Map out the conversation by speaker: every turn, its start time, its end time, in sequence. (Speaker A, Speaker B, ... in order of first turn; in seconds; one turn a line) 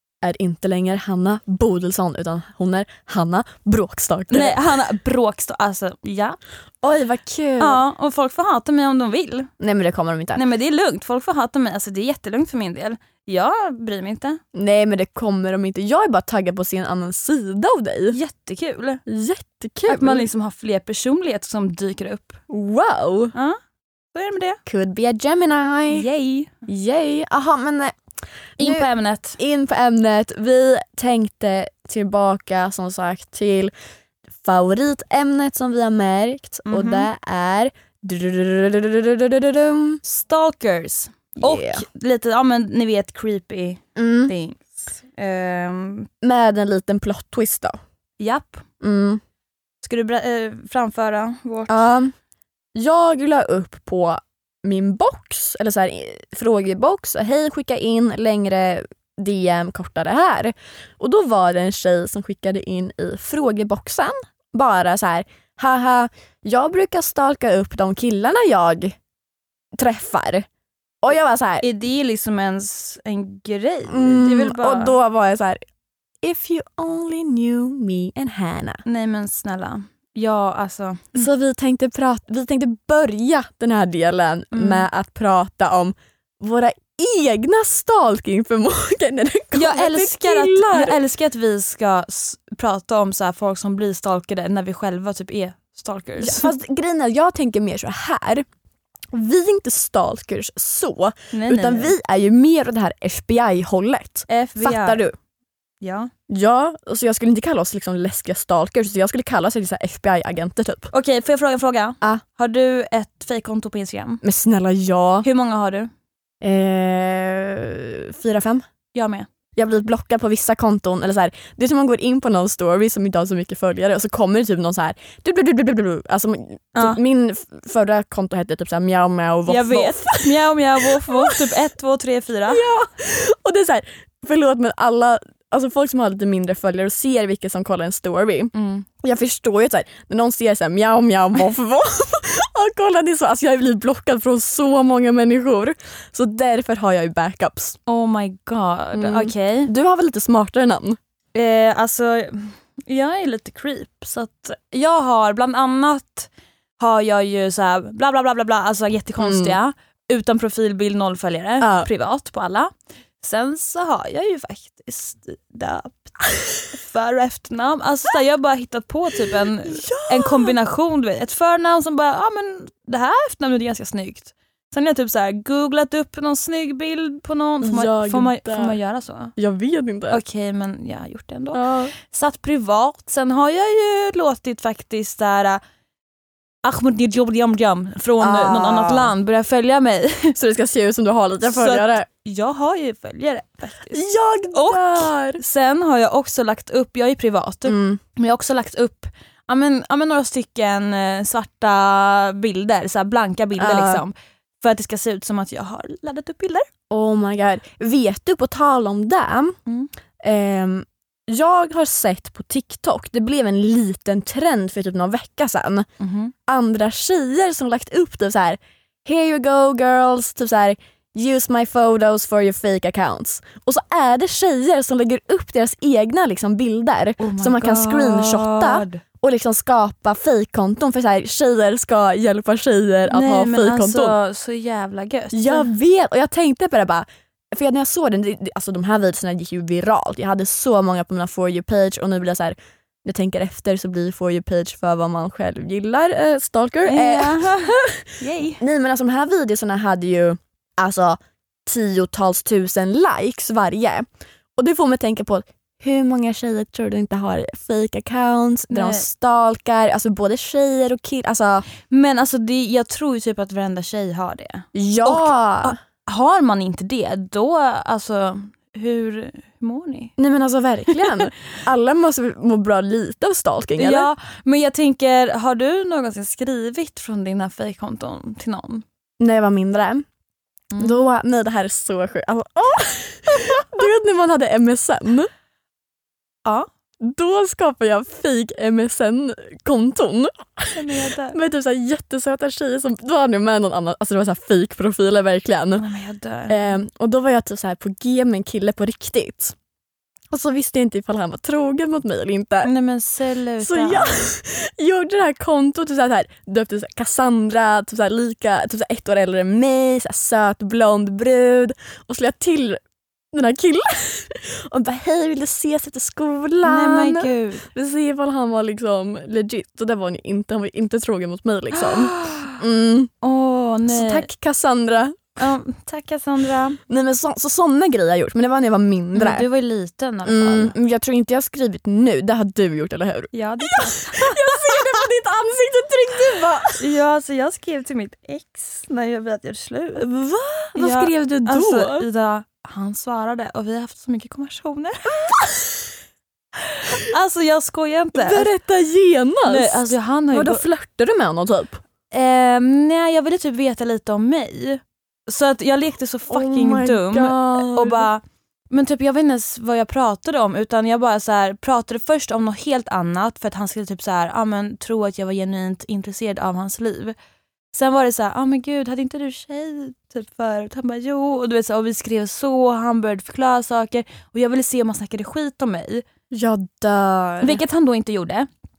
Speaker A: 0.2-4.6
Speaker B: 4.3-6.4
Speaker A: 6.8-7.8
Speaker B: 7.6-9.5
Speaker A: 9.6-10.4
Speaker B: 10.3-14.4
Speaker A: 14.5-18.2
Speaker B: 18.1-19.0
Speaker A: 19.1-20.2
Speaker B: 19.9-22.4
Speaker A: 22.5-23.3
Speaker B: 24.1-24.6
Speaker A: 24.6-26.1
Speaker B: 25.9-26.6
Speaker A: 26.7-27.9
Speaker B: 28.6-29.4
Speaker A: 28.6-33.7
Speaker A: 34.4-40.0
Speaker B: 36.6-37.1
Speaker B: 40.0-46.1
Speaker A: 41.4-41.8
Speaker A: 44.0-44.3
Speaker A: 46.2-47.8
Speaker B: 48.2-48.6
Speaker A: 48.8-49.2
Speaker B: 49.8-51.8
Speaker A: 51.7-52.1
Speaker A: 52.7-69.0
Speaker A: 69.8-70.5
Speaker A: 71.0-71.6
Speaker B: 71.6-75.0
Speaker A: 73.9-75.6
Speaker A: 76.2-78.8
Speaker B: 78.8-81.3
Speaker A: 81.1-91.0
Speaker B: 84.5-84.8
Speaker B: 89.5-96.5
Speaker A: 96.2-98.4
Speaker A: 99.1-105.1
Speaker B: 101.3-101.9
Speaker B: 104.3-105.0
Speaker B: 105.8-106.1
Speaker A: 106.3-110.9
Speaker B: 110.9-114.2
Speaker A: 114.2-115.2
Speaker B: 115.2-115.9
Speaker A: 116.4-118.6
Speaker B: 118.9-119.3
Speaker A: 119.5-130.3
Speaker B: 126.7-127.0
Speaker B: 129.5-132.6
Speaker A: 130.8-131.4
Speaker A: 132.5-147.8
Speaker B: 138.5-138.8
Speaker B: 147.9-149.7
Speaker A: 148.9-151.0
Speaker B: 151.3-166.1
Speaker A: 159.2-159.6
Speaker A: 161.6-161.9
Speaker B: 166.7-179.3
Speaker A: 169.3-170.5
Speaker A: 177.6-178.8
Speaker A: 179.4-180.2
Speaker B: 180.1-185.6
Speaker A: 181.5-181.9
Speaker B: 186.6-190.3
Speaker A: 188.2-189.1
Speaker A: 190.3-192.1
Speaker B: 191.4-194.0
Speaker A: 193.9-195.4
Speaker B: 194.5-206.7
Speaker A: 197.7-198.0
Speaker A: 203.6-204.0
Speaker A: 206.9-209.6
Speaker A: 210.2-215.9
Speaker B: 216.0-216.3
Speaker A: 216.5-234.2
Speaker B: 227.2-229.0
Speaker B: 233.1-235.7
Speaker A: 235.3-254.0
Speaker B: 246.8-248.6
Speaker A: 254.6-261.6
Speaker B: 258.7-259.0
Speaker B: 261.8-270.1
Speaker A: 264.7-265.8
Speaker A: 270.2-274.1
Speaker B: 270.9-271.2
Speaker B: 273.8-278.8
Speaker A: 279.2-280.0
Speaker A: 280.8-285.3
Speaker A: 287.0-295.9
Speaker B: 290.7-291.4
Speaker B: 295.8-296.8
Speaker A: 296.5-299.5
Speaker A: 300.3-302.7
Speaker B: 302.6-304.3
Speaker A: 303.6-312.8
Speaker A: 313.3-323.1
Speaker B: 316.6-317.6
Speaker B: 321.7-322.6
Speaker B: 323.2-324.3
Speaker A: 323.9-325.4
Speaker B: 325.4-326.8
Speaker A: 326.9-329.4
Speaker B: 329.1-330.7
Speaker A: 330.2-336.8
Speaker B: 333.3-335.0
Speaker B: 336.8-340.0
Speaker A: 340.0-342.1
Speaker B: 340.8-345.1
Speaker A: 345.2-345.8
Speaker B: 346.9-348.5
Speaker A: 348.1-351.8
Speaker B: 349.4-350.6
Speaker B: 352.1-367.1
Speaker A: 356.3-358.1
Speaker B: 367.7-376.0
Speaker A: 376.3-377.6
Speaker B: 377.4-378.5